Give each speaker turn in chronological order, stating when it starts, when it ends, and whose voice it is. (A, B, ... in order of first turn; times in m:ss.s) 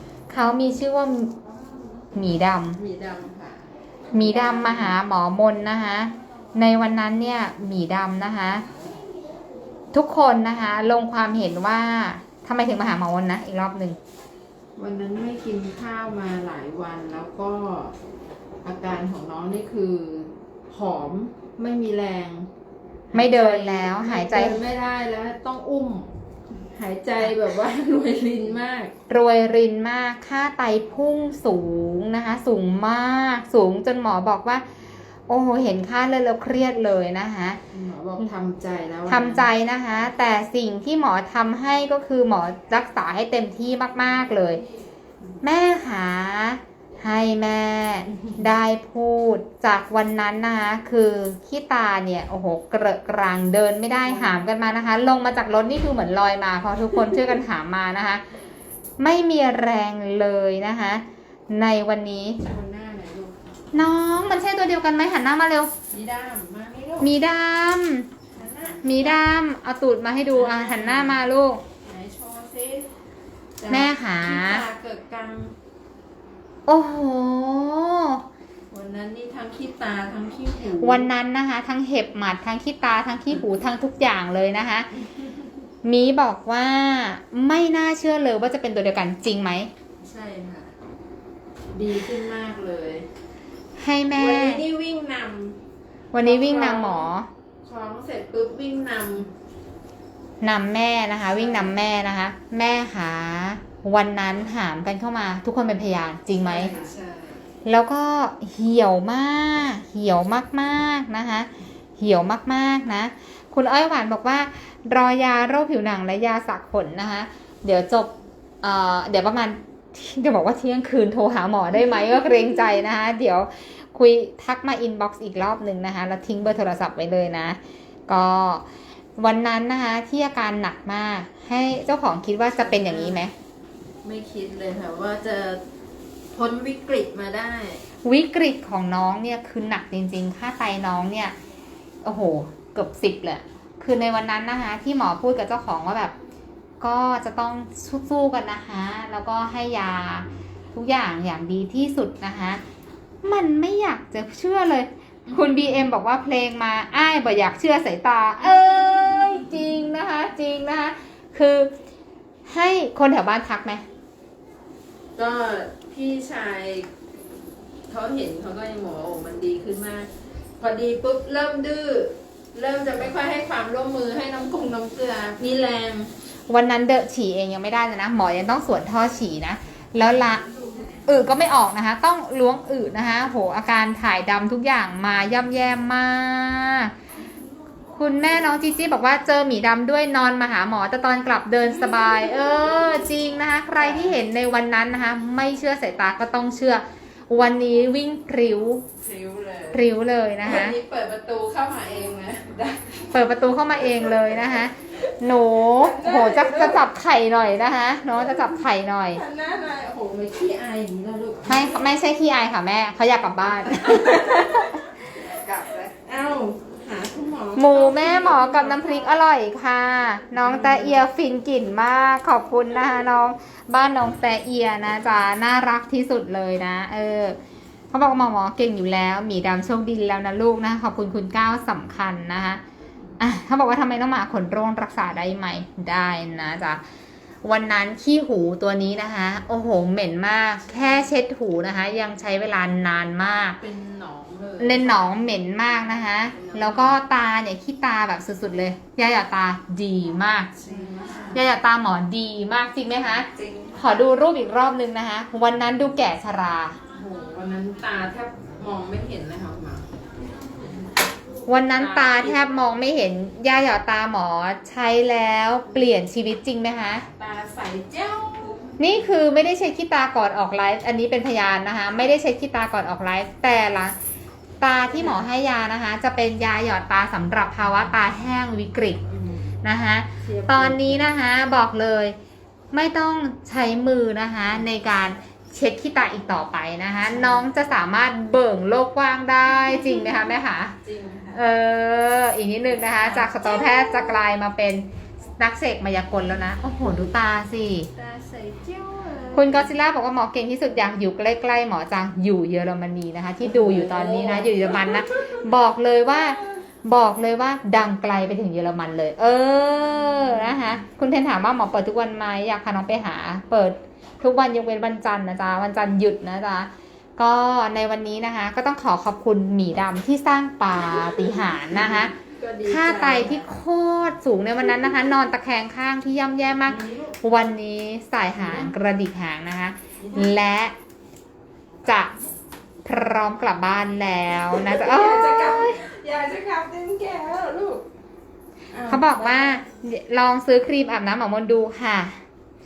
0:00.3-0:01.4 A
0:02.1-0:02.8 A
0:02.8-0:05.0 B
0:04.1-0:08.6 A
0:09.9-0:14.0 A
0:14.8-0:18.0 B
0:18.6-0:22.5 B
0:23.1-0:28.9 B
0:23.1-0:24.6 A
0:29.1-0:34.6 A
0:35.3-0:37.6 A
0:37.7-0:39.5 B
0:39.1-0:44.6 A
0:45.4-0:58.2 A
0:54.0-0:54.5 B
0:59.0-1:02.4 A
1:02.4-1:03.4 B
1:03.7-1:05.7 A
1:05.9-1:07.1 B
1:07.0-1:08.1 A
1:08.3-1:09.2 B
1:08.8-1:11.6 A
1:10.3-1:11.2 B
1:11.8-1:12.9 B
1:13.6-1:15.6 B
1:13.7-1:14.7 A
1:16.7-1:18.2 A
1:18.7-1:21.1 B
1:20.8-1:24.9 A
1:25.8-1:29.7 A
1:30.0-1:30.7 B
1:31.7-1:33.1 B
1:33.8-1:34.6 A
1:34.1-1:35.6 B
1:36.1-1:37.3 A
1:36.2-1:37.1 B
1:37.6-1:39.3 B
1:40.4-1:46.8 A
1:41.3-1:41.8 B
1:46.4-1:47.4 B
1:47.6-2:08.7 A
2:09.2-2:13.3 A
2:12.5-2:13.2 B
2:14.0-2:15.6 B
2:16.3-2:17.8 B
2:18.0-2:21.4 A
2:22.0-2:26.1 A
2:26.8-2:32.6 A
2:33.2-2:41.7 A
2:42.5-2:43.8 A
2:45.2-2:46.9 B
2:47.9-2:56.1 B
2:56.5-3:00.4 A
3:01.1-3:06.9 A
3:08.0-3:18.8 A
3:19.0-3:19.9 B
3:19.7-3:20.8 A
3:20.4-3:23.2 B
3:23.1-3:29.2 A
3:25.7-3:26.8 B
3:29.1-3:31.7 B
3:31.5-3:34.8 A
3:33.8-3:34.6 B
3:35.2-3:39.2 B
3:37.6-3:47.4 A
3:40.4-3:41.0 B
3:47.9-3:52.6 A
3:53.2-3:56.8 A
3:57.4-4:03.6 A
4:00.7-4:01.1 B
4:03.6-4:05.3 B
4:04.6-4:10.5 A
4:06.3-4:07.0 B
4:10.6-4:11.4 B
4:11.3-4:16.8 A
4:13.4-4:13.8 B
4:16.9-4:19.9 B
4:21.5-4:27.0 A
4:21.8-4:22.5 B
4:27.2-4:28.7 B
4:28.8-4:34.0 A
4:34.6-4:39.0 A
4:34.9-4:35.3 B
4:39.1-4:39.6 B
4:39.6-4:42.2 A
4:40.2-4:41.1 B
4:42.7-4:50.8 A
4:47.2-4:47.4 B
4:50.8-4:51.4 B
4:51.3-4:54.9 A
4:53.0-4:53.9 B
4:55.4-4:57.9 A
4:58.0-4:59.7 B
4:59.4-5:30.7 A
5:03.4-5:05.4 B
5:21.7-5:23.5 B
5:26.7-5:27.2 B
5:30.0-5:30.4 B
5:31.8-5:32.1 A
5:32.8-5:35.8 A
5:34.5-5:37.8 B
5:38.7-5:39.6 B
5:38.9-5:42.2 A